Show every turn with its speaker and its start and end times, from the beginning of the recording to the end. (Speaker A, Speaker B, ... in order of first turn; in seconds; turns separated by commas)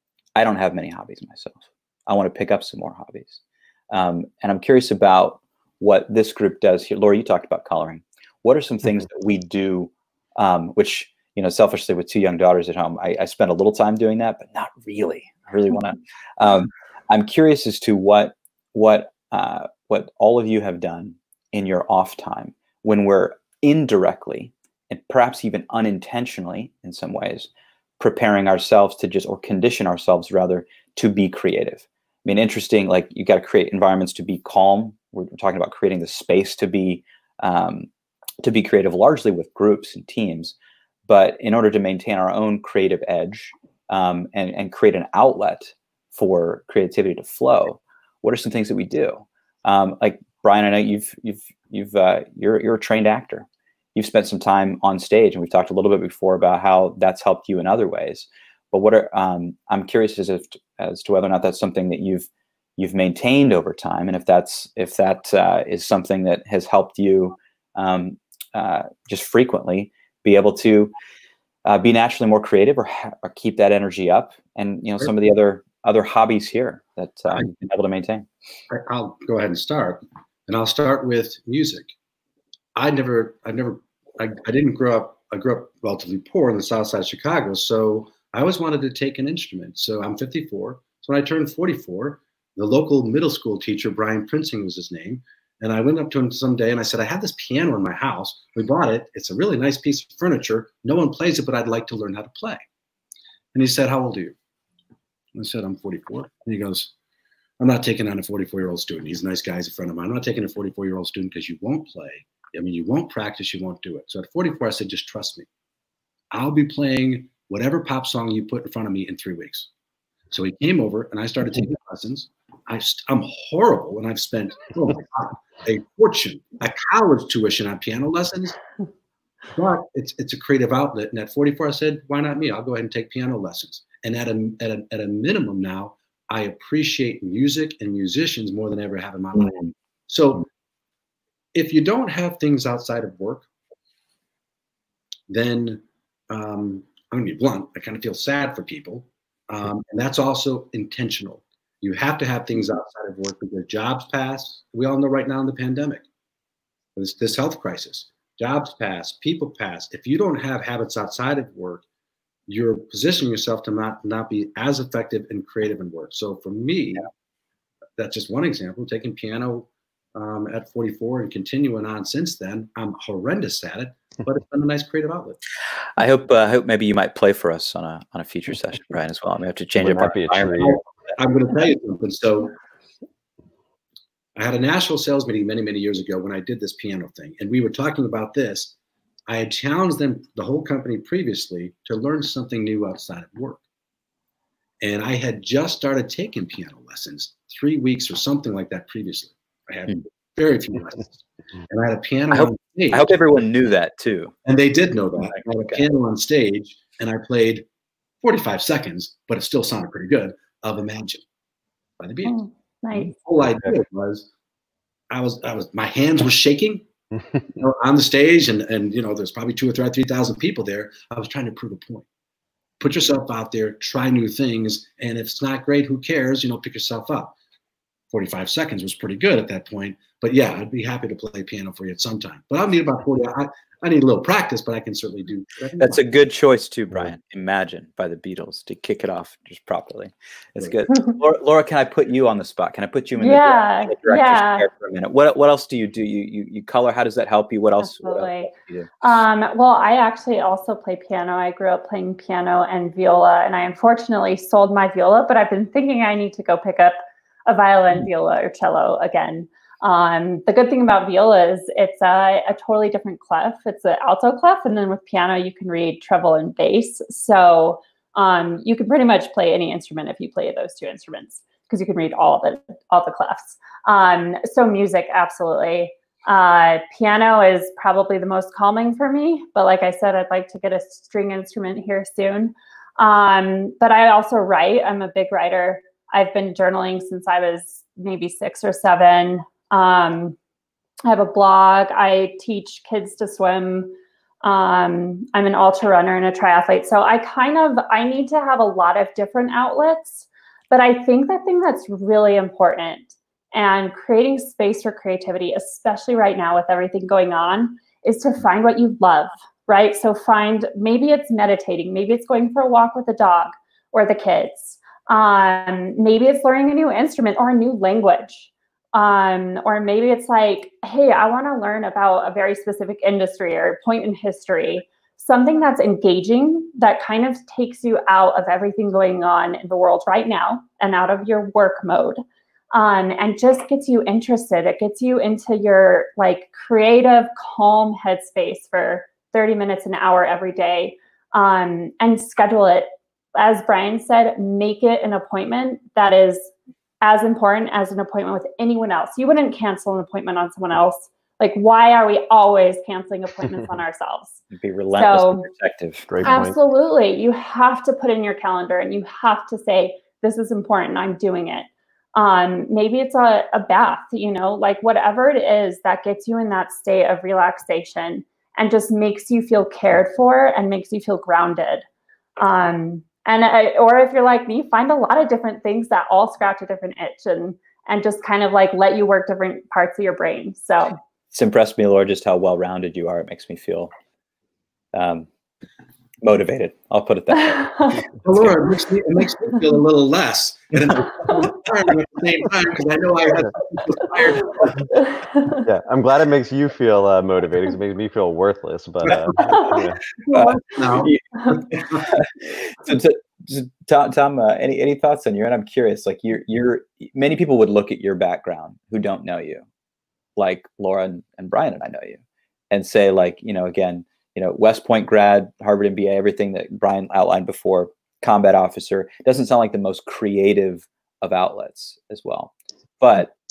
Speaker A: 0.3-37.9, Speaker A: 38.4-40.5, Speaker A: 41.1-70.9, Speaker A: 71.7-78.3, Speaker B: 78.7-81.9, Speaker B: 82.8-102.6, Speaker B: 103.5-104.3, Speaker B: 105.3-106.9, Speaker B: 107.6-115.5, Speaker B: 116.3-119.7, Speaker B: 120.3-128.6, Speaker B: 129.5-140.5, Speaker B: 141.6-143.5, Speaker B: 145.3-156.1, Speaker B: 157.0-161.8, Speaker B: 162.5-167.1, Speaker B: 168.0-175.4, Speaker A: 176.0-180.7, Speaker C: 179.8-180.8, Speaker B: 180.6-182.5, Speaker B: 184.4-188.7, Speaker B: 189.3-193.6, Speaker B: 194.8-203.2, Speaker A: 202.3-204.3, Speaker B: 204.5-207.7, Speaker B: 208.2-211.2, Speaker B: 212.0-212.4, Speaker D: 212.3-213.1, Speaker B: 212.9-214.3, Speaker B: 215.1-216.8, Speaker B: 217.6-222.1, Speaker B: 222.8-227.3, Speaker B: 228.1-236.0, Speaker A: 235.8-248.9, Speaker D: 243.2-244.7, Speaker D: 247.8-290.4, Speaker D: 291.1-332.2, Speaker D: 332.7-354.4, Speaker A: 354.5-356.4, Speaker D: 354.9-355.5, Speaker C: 356.1-356.5, Speaker D: 356.2-371.8, Speaker D: 372.4-381.0, Speaker A: 381.3-383.9, Speaker A: 384.9-385.3, Speaker A: 386.2-388.5, Speaker D: 387.5-388.0, Speaker B: 388.2-394.9, Speaker D: 395.2-395.6, Speaker C: 395.6-400.0, Speaker B: 399.1-402.0, Speaker A: 400.3-409.6, Speaker A: 410.4-412.2, Speaker A: 412.7-423.3